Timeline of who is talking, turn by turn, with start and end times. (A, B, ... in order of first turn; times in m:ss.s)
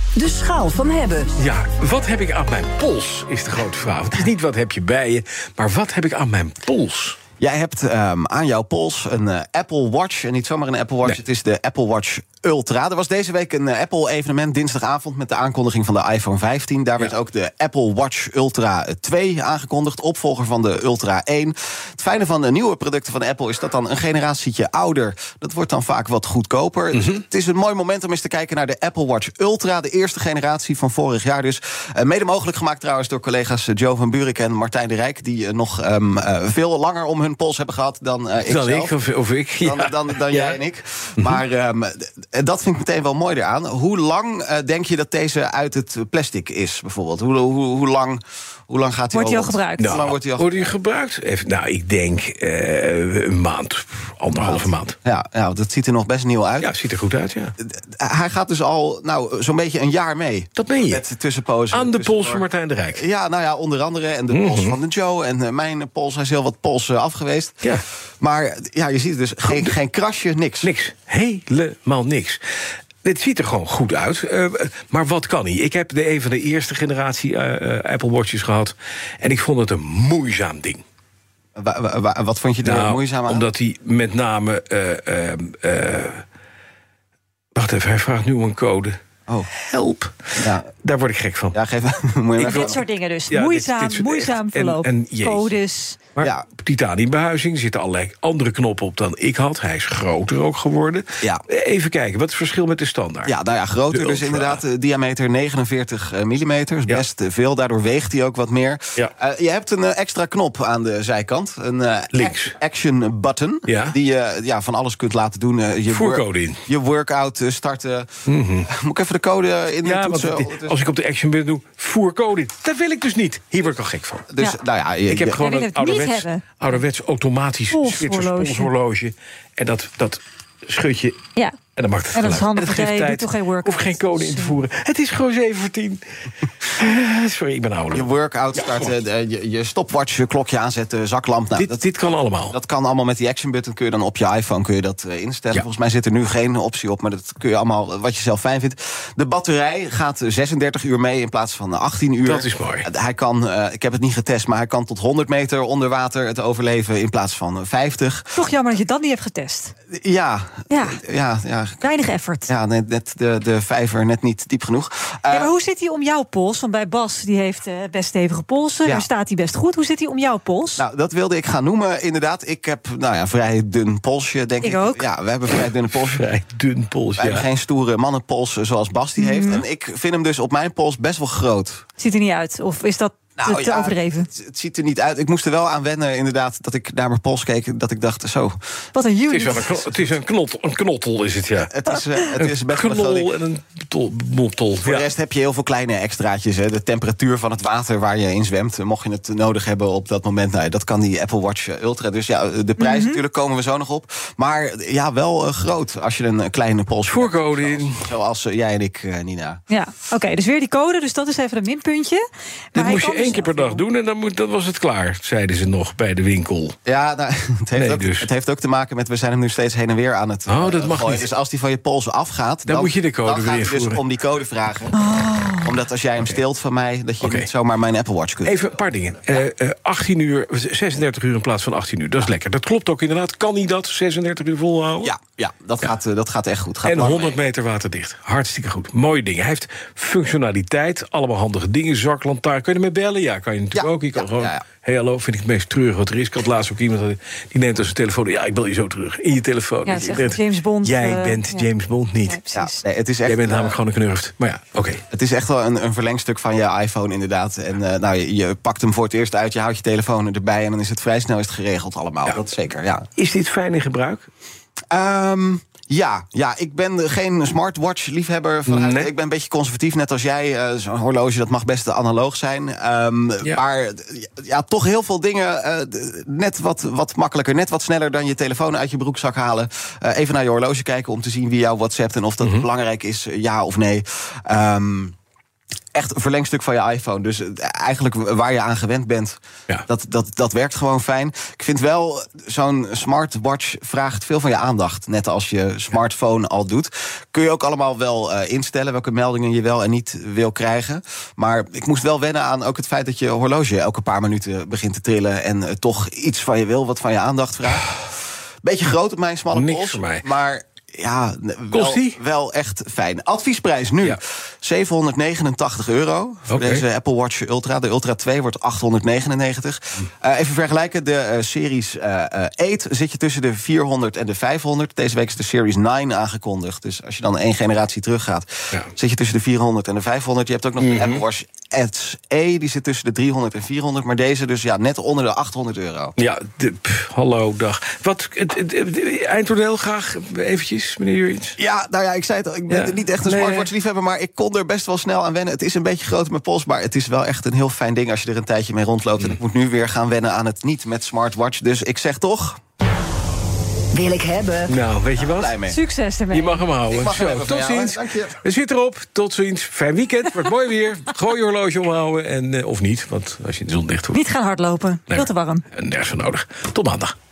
0:00.1-0:01.4 A
0:01.4-0:07.2 B
0:07.4-0:38.9 C
0:26.9-0:27.2 B
0:38.5-0:40.6 B
0:39.6-0:50.7 C
0:49.1-0:49.9 D
0:49.8-0:54.9 B
0:54.3-0:56.7 C
0:56.6-0:57.5 B
0:57.6-1:10.7 C
1:00.6-1:01.0 B
1:01.7-1:03.0 B
1:04.3-1:04.8 B
1:09.5-1:09.7 B
1:10.6-1:12.4 B
1:13.0-1:20.8 B
1:21.6-1:23.5 C
1:22.6-1:26.2 B
1:27.5-1:29.0 B
1:29.5-1:31.6 B
1:30.4-1:30.7 C
1:31.5-1:32.8 C
1:32.4-1:35.5 B
1:32.5-1:36.1 D
1:36.1-1:43.3 B
1:43.2-1:58.1 C
1:43.9-1:44.6 B
1:52.1-1:52.5 B
1:53.7-1:54.0 B
1:55.9-1:56.6 B
1:58.3-1:58.7 B
1:58.7-2:00.8 C
1:59.8-2:04.3 B
2:04.3-2:05.4 C
2:05.1-2:11.2 B
2:05.3-2:06.7 D
2:07.7-2:08.7 D
2:11.8-2:16.0 B
2:12.1-2:14.6 D
2:16.6-2:18.9 B
2:17.9-2:21.8 C
2:21.6-2:22.5 B
2:22.5-2:38.3 C
2:32.2-2:32.9 B
2:38.3-2:39.7 D
2:39.9-2:41.8 C
2:40.7-2:41.0 D
2:41.8-2:42.5 D
2:42.5-2:45.5 C
2:45.3-2:50.8 D
2:50.8-2:56.2 C
2:54.6-2:55.0 D
2:55.9-2:57.5 B
2:57.2-3:01.8 C
2:59.2-2:59.6 D
3:02.0-3:04.3 D
3:03.4-3:08.5 C
3:08.9-3:09.9 D
3:09.3-3:11.7 B
3:11.7-3:13.3 C
3:12.4-3:15.1 B
3:14.8-3:29.6 C
3:22.8-3:23.2 D
3:27.1-3:28.0 B
3:29.7-3:32.2 D
3:32.7-3:33.8 D
3:32.7-3:36.8 B
3:36.8-3:45.0 C
3:37.8-3:38.3 B
3:40.5-3:41.3 B
3:42.7-3:44.0 B
3:45.0-3:45.7 D
3:45.6-3:48.6 C
3:47.2-3:47.5 B
3:48.4-3:55.1 B
3:55.0-3:57.4 C
3:56.8-4:12.4 B
4:03.7-4:04.6 C
4:09.8-4:11.7 D
4:12.2-4:12.8 D
4:12.5-4:13.8 C
4:13.2-4:15.0 B
4:15.1-4:23.1 C
4:23.2-4:24.3 B
4:24.9-4:45.1 C
4:28.7-4:29.1 B
4:45.9-5:36.1 C
5:09.5-5:10.2 B
5:11.7-5:12.2 B
5:16.5-5:16.8 B
5:30.8-5:31.2 B
5:36.2-5:41.6 B
5:41.6-5:52.6 C
5:42.7-5:43.7 B
5:53.9-5:54.7 A
5:54.7-5:55.6 B
5:55.2-5:55.8 C
5:55.6-5:56.7 D
5:56.3-6:04.2 B
5:56.9-5:58.4 C
6:04.1-6:05.6 D
6:05.1-6:07.1 B